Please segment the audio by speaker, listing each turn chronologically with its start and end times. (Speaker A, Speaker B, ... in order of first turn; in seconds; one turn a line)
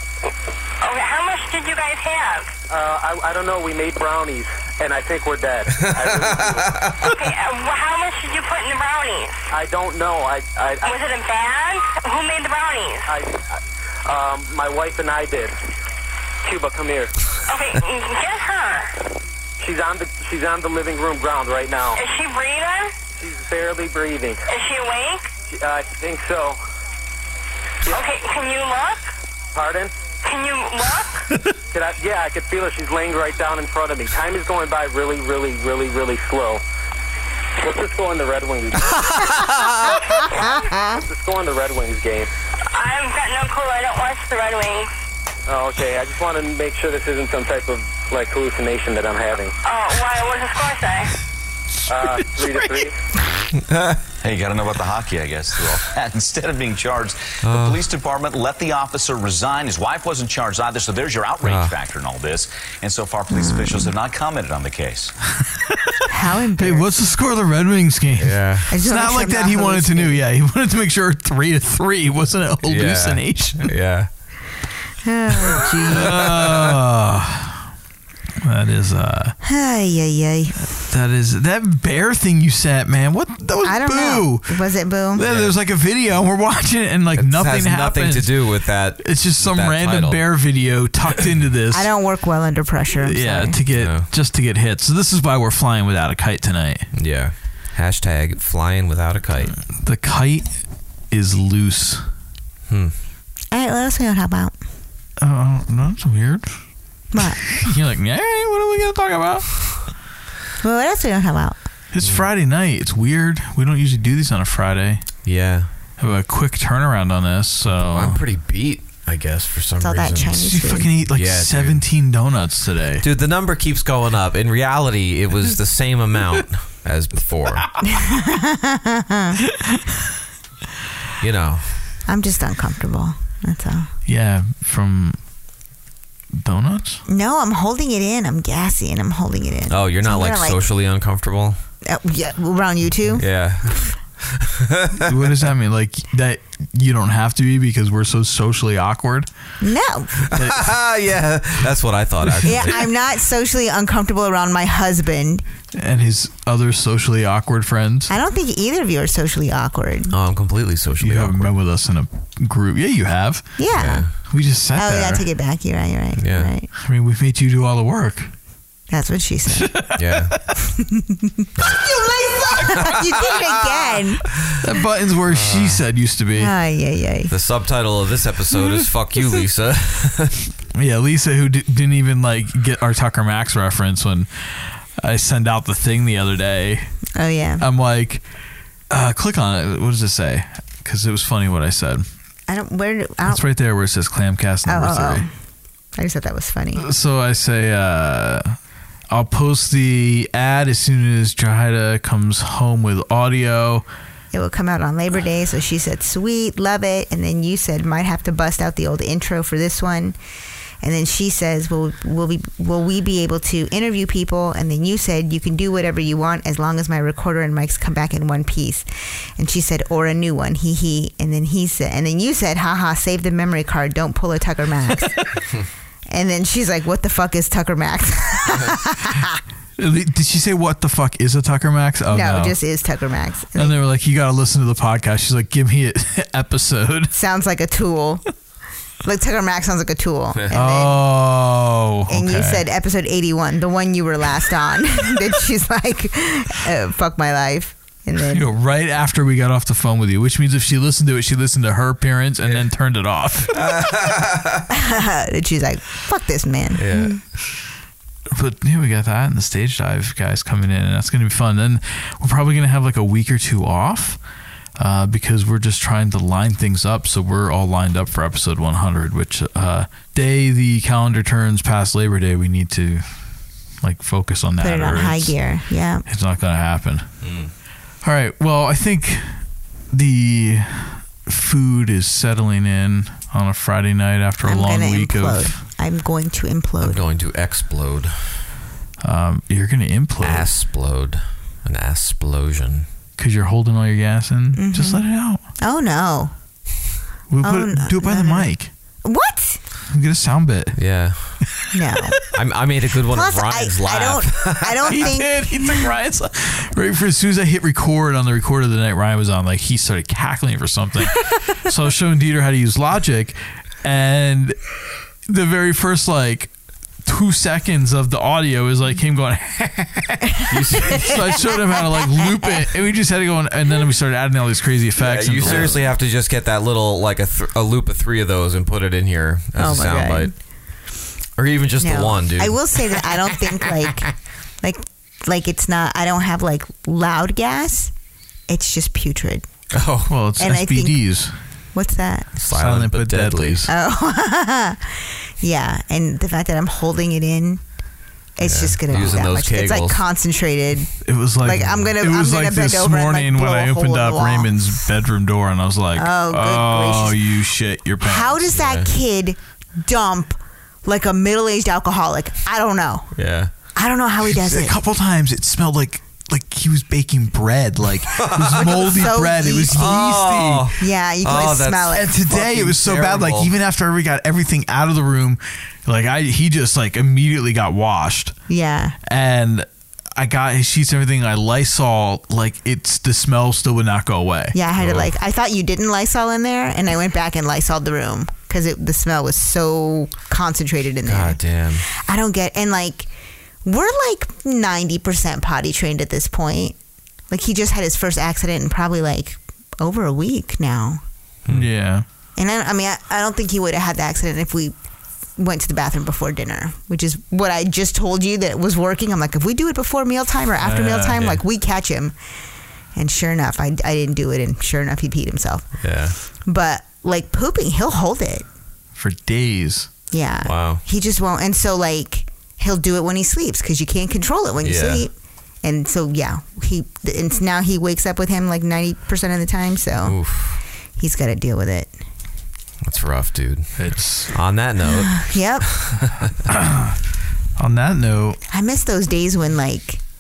Speaker A: 0.8-2.5
Speaker B: 2.7-6.9
Speaker C: 5.8-6.9
Speaker A: 7.0-9.5
Speaker B: 9.5-11.0
Speaker A: 10.9-13.1
Speaker B: 13.1-13.5
Speaker B: 14.1-15.6
Speaker B: 16.4-17.1
Speaker A: 17.5-18.9
Speaker B: 19.6-22.0
Speaker A: 21.9-22.9
Speaker B: 23.2-24.5
Speaker A: 24.5-25.3
Speaker B: 25.5-26.6
Speaker A: 27.9-29.1
Speaker B: 29.6-29.9
Speaker A: 30.2-31.3
Speaker B: 31.7-36.6
Speaker B: 37.6-39.0
Speaker D: 39.1-41.0
Speaker B: 41.0-42.3
Speaker A: 42.7-44.9
Speaker B: 45.5-49.5
Speaker A: 49.6-51.1
Speaker B: 51.9-52.9
Speaker C: 53.6-54.0
Speaker E: 54.2-65.1
Speaker C: 57.4-57.8
Speaker C: 61.4-61.8
Speaker D: 63.3-63.9
Speaker D: 66.1-66.9
Speaker F: 66.6-73.7
Speaker C: 68.2-68.7
Speaker D: 68.7-70.2
Speaker C: 72.7-74.1
Speaker D: 75.0-76.3
Speaker F: 75.9-77.6
Speaker C: 76.0-76.7
Speaker F: 78.4-79.4
Speaker D: 79.4-80.6
Speaker F: 80.6-84.6
Speaker D: 83.6-85.3
Speaker F: 85.1-91.9
Speaker C: 85.2-85.5
Speaker C: 87.1-90.2
Speaker D: 91.7-93.6
Speaker F: 93.0-96.9
Speaker C: 93.7-94.1
Speaker C: 96.9-99.6
Speaker F: 99.7-100.6
Speaker F: 101.1-102.0
Speaker C: 102.7-102.9
Speaker D: 103.5-104.5
Speaker F: 105.2-106.5
Speaker D: 107.1-107.6
Speaker F: 107.6-109.8
Speaker D: 110.6-111.6
Speaker F: 111.9-115.0
Speaker C: 112.0-112.3
Speaker C: 115.2-115.7
Speaker F: 116.0-118.2
Speaker C: 117.7-121.8
Speaker D: 119.8-120.9
Speaker F: 120.4-123.0
Speaker C: 123.0-127.7
Speaker D: 127.9-129.4
Speaker C: 131.2-131.7
Speaker D: 132.1-133.9
Speaker F: 134.1-135.2
Speaker F: 136.4-137.0
Speaker D: 137.1-140.6
Speaker C: 139.7-141.6
Speaker D: 141.8-143.3
Speaker C: 143.1-145.0
Speaker F: 145.1-149.3
Speaker D: 149.6-150.2
Speaker F: 150.3-150.7
Speaker C: 150.3-152.9
Speaker F: 152.2-152.6
Speaker D: 152.4-155.4
Speaker F: 155.7-158.1
Speaker D: 158.1-160.2
Speaker C: 160.1-161.5
Speaker F: 161.0-163.6
Speaker D: 163.6-164.1
Speaker C: 163.7-164.1
Speaker F: 164.3-165.2
Speaker D: 164.8-166.7
Speaker C: 166.2-166.5
Speaker F: 166.8-168.3
Speaker D: 168.9-169.9
Speaker F: 169.6-170.2
Speaker C: 170.0-170.3
Speaker D: 170.8-171.5
Speaker F: 172.1-172.7
Speaker D: 172.6-174.2
Speaker F: 174.6-176.5
Speaker C: 175.3-175.8
Speaker D: 176.3-177.3
Speaker C: 177.3-180.3
Speaker F: 180.8-187.0
Speaker D: 187.2-187.6
Speaker F: 187.6-188.2
Speaker F: 188.9-192.1
Speaker D: 192.5-193.4
Speaker F: 193.3-195.2
Speaker D: 194.7-195.3
Speaker D: 196.0-196.9
Speaker F: 196.8-198.6
Speaker F: 199.1-203.8
Speaker D: 204.3-210.2
Speaker D: 210.8-225.2
Speaker D: 226.1-229.4
Speaker F: 229.8-232.6
Speaker D: 232.1-233.8
Speaker F: 233.6-237.1
Speaker D: 237.1-238.2
Speaker D: 239.0-241.0
Speaker F: 240.5-242.6
Speaker D: 242.1-248.5
Speaker F: 248.3-253.6
Speaker C: 253.6-254.6
Speaker D: 254.7-257.2
Speaker C: 256.8-257.2
Speaker F: 258.4-264.2
Speaker F: 264.8-273.1
Speaker F: 273.8-275.4
Speaker D: 274.6-276.1
Speaker F: 276.1-277.1
Speaker C: 277.2-277.5
Speaker F: 278.0-285.6
Speaker D: 284.4-287.0
Speaker C: 286.8-288.4
Speaker F: 289.0-290.5
Speaker C: 290.2-292.9
Speaker F: 293.2-295.4
Speaker D: 294.6-295.1
Speaker D: 295.6-296.3
Speaker F: 297.3-298.7
Speaker D: 297.4-298.5
Speaker D: 299.0-299.6
Speaker F: 299.9-300.8
Speaker C: 300.7-301.4
Speaker D: 301.7-302.2
Speaker C: 302.3-305.1
Speaker D: 303.1-305.9
Speaker F: 304.9-314.6
Speaker F: 315.3-316.5
Speaker F: 317.0-325.8
Speaker C: 320.5-321.1
Speaker C: 325.0-330.3
Speaker D: 329.6-330.3
Speaker C: 331.4-332.7
Speaker D: 331.8-337.9
Speaker D: 338.5-339.5
Speaker C: 339.7-340.1
Speaker F: 340.1-341.3
Speaker D: 340.4-341.0
Speaker D: 341.7-342.3
Speaker C: 342.4-343.7
Speaker F: 342.5-343.7
Speaker D: 343.7-347.6
Speaker D: 348.4-354.5
Speaker C: 348.4-350.0
Speaker F: 351.0-358.6
Speaker D: 355.9-357.2
Speaker D: 358.0-363.1
Speaker C: 358.5-358.9
Speaker C: 363.1-363.5
Speaker D: 363.8-364.8
Speaker F: 364.2-370.7
Speaker C: 368.2-369.1
Speaker D: 368.8-369.8
Speaker C: 369.7-373.5
Speaker D: 370.8-372.1
Speaker F: 371.9-378.4
Speaker D: 378.5-379.0
Speaker F: 379.1-384.6
Speaker D: 384.5-391.4
Speaker C: 384.8-385.1
Speaker C: 391.1-391.9
Speaker D: 391.9-393.1
Speaker D: 393.6-396.8
Speaker D: 397.3-401.0
Speaker F: 401.5-402.1
Speaker D: 402.4-404.7
Speaker D: 405.4-412.1
Speaker F: 410.6-411.3
Speaker D: 412.9-415.7
Speaker C: 415.8-416.2
Speaker D: 416.4-418.4
Speaker F: 419.0-419.9
Speaker D: 420.1-430.2
Speaker C: 420.4-420.8
Speaker C: 424.6-425.1
Speaker C: 430.0-430.6
Speaker D: 431.0-431.9
Speaker C: 432.8-436.3
Speaker F: 433.8-434.4
Speaker D: 434.9-435.7
Speaker F: 436.5-436.9
Speaker F: 437.6-438.4
Speaker D: 438.5-440.0